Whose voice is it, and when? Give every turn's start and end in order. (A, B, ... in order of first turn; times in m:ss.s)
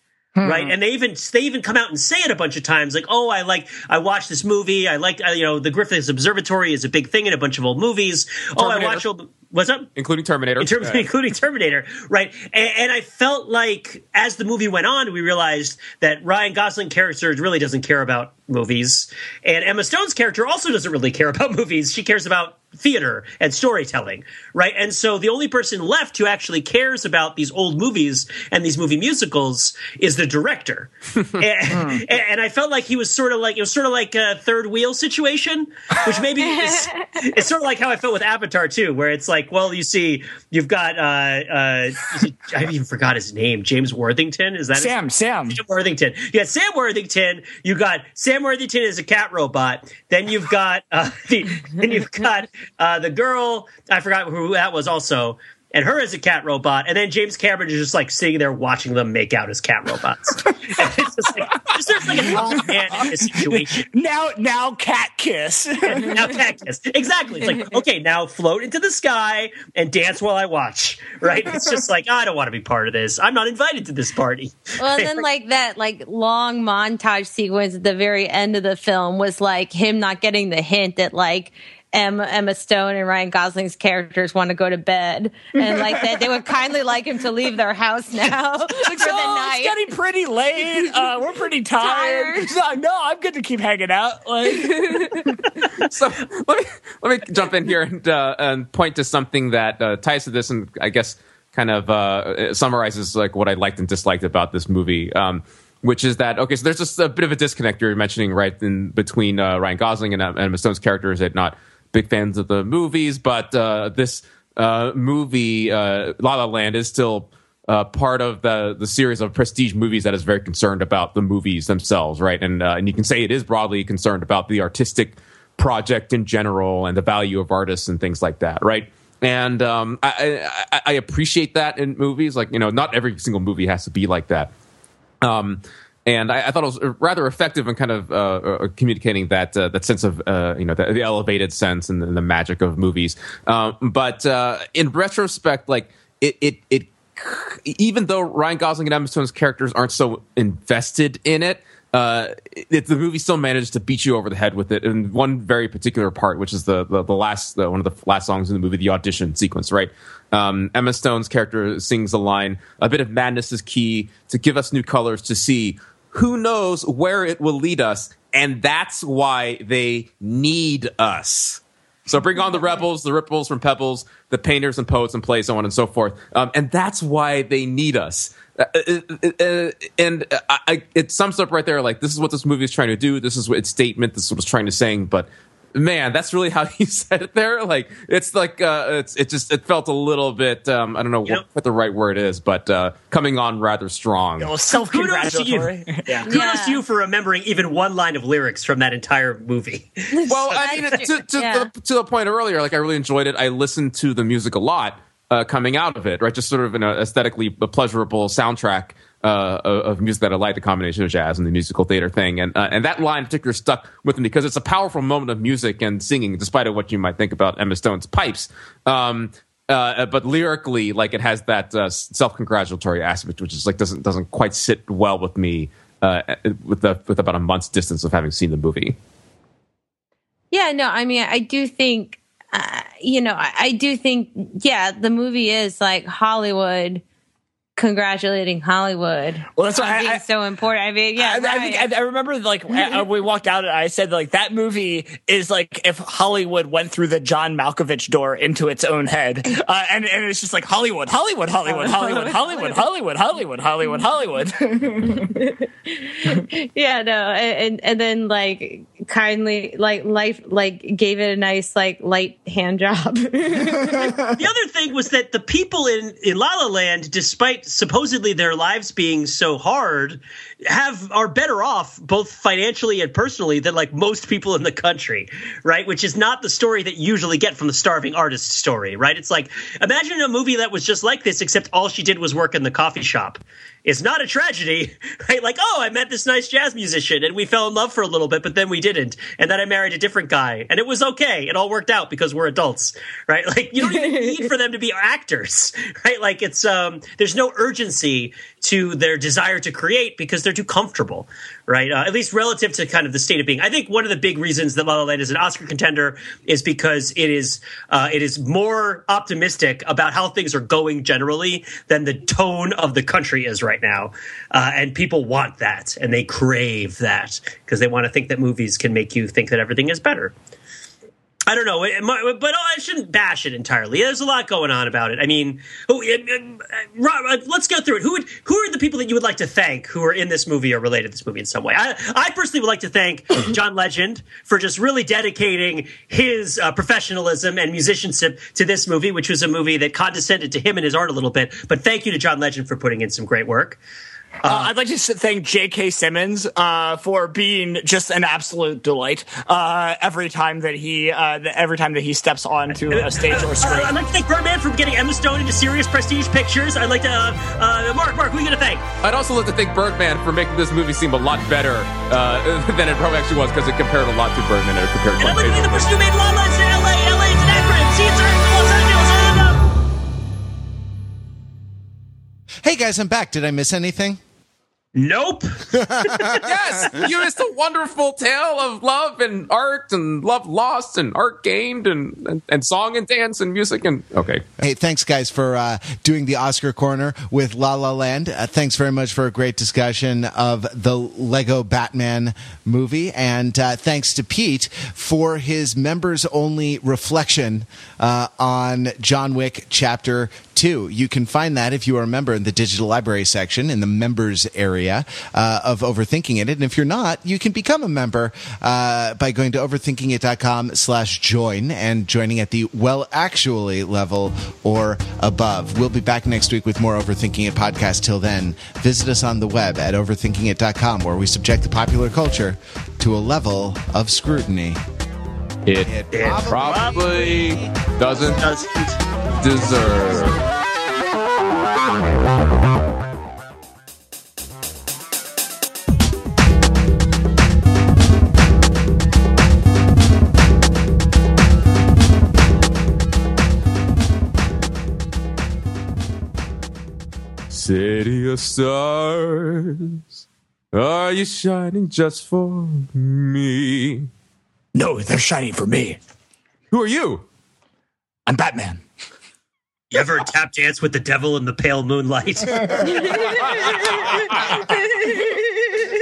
0:00.4-0:00.7 A
0:00.4-0:09.9 B
0:08.6-0:09.0 C
0:10.0-0:11.1 C
0:10.6-0:44.9 B
0:31.7-0:32.0 A
0:36.4-0:37.1 D
0:44.7-0:45.6 A
0:45.5-1:03.9 B
1:02.1-1:06.3 A
1:06.0-1:15.2 B
1:14.8-1:29.7 D
1:25.6-1:26.5 A
1:28.8-1:35.3 A
1:31.8-1:32.5 D
1:34.6-1:35.2 D
1:35.8-2:14.5 C
2:15.2-3:14.5 C
3:14.4-3:16.3 A
3:14.9-3:15.7 B
3:16.2-3:16.8 D
3:16.3-3:20.1 B
3:20.1-3:21.7 D
3:20.3-3:49.0 C
3:50.5-3:57.0 D
3:57.8-4:01.9 D
3:59.6-4:00.2 A
4:01.2-4:15.3 A
4:11.7-4:12.8 D
4:15.1-4:24.3 D
4:24.2-5:20.3 B
4:53.8-4:54.3 D
5:21.5-5:43.8 B
5:44.4-5:44.7 B
5:44.4-5:54.0 A
5:52.9-5:58.9 B
5:59.0-6:05.9 C
6:05.2-6:09.7 B
6:12.6-6:14.2 E
6:15.0-6:16.4 B
6:15.7-6:16.5 E
6:16.4-6:24.4 C
6:24.6-7:04.8 E
7:05.7-7:08.4 C
7:05.9-7:08.3 E
7:06.1-7:06.9 B
7:08.1-7:09.0 B
7:09.4-7:10.4 C
7:27.5-7:30.1 C
7:30.7-7:34.1 C
7:34.7-7:36.0 A
7:36.7-7:37.2 C
7:38.3-7:38.8 A
7:39.9-7:43.2 B
7:43.2-7:44.6 C